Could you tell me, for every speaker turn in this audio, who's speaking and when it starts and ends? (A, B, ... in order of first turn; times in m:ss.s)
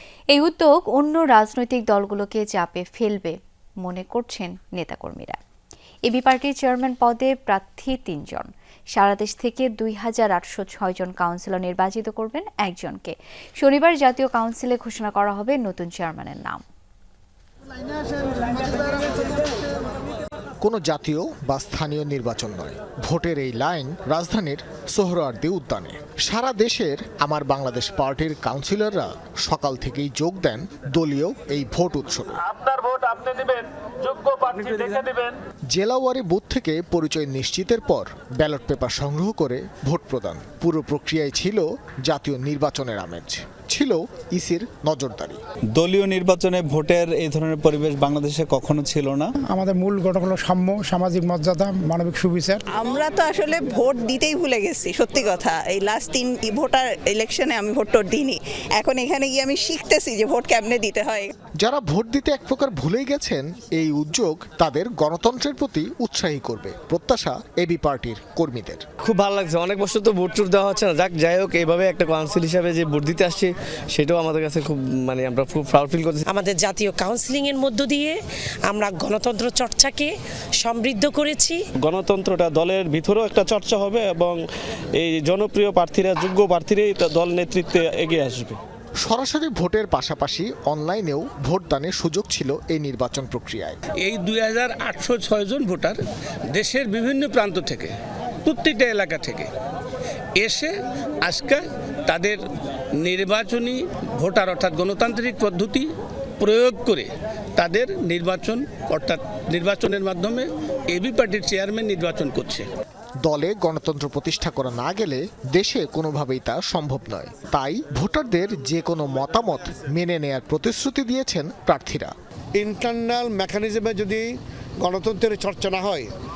0:00.3-0:05.4 A
0:06.1-0:16.6 A
0:20.6-0:32.4 B
0:32.6-0:35.3 C
0:35.7-0:45.4 B
0:45.8-0:49.3 D
0:49.4-0:52.6 E
0:52.7-1:01.3 F
1:01.6-1:08.8 B
1:09.0-1:16.2 G
1:16.3-1:21.7 H
1:21.8-1:24.4 G
1:25.0-1:28.6 G
1:29.0-1:33.8 B
1:34.0-1:36.0 I
1:36.6-1:37.9 I
1:38.4-1:39.5 I
1:40.4-1:40.7 I
1:41.3-1:42.4 I
1:43.0-1:45.9 I
1:46.4-1:52.7 I
1:53.2-2:02.1 B
2:02.6-2:04.2 J
2:04.8-2:06.1 J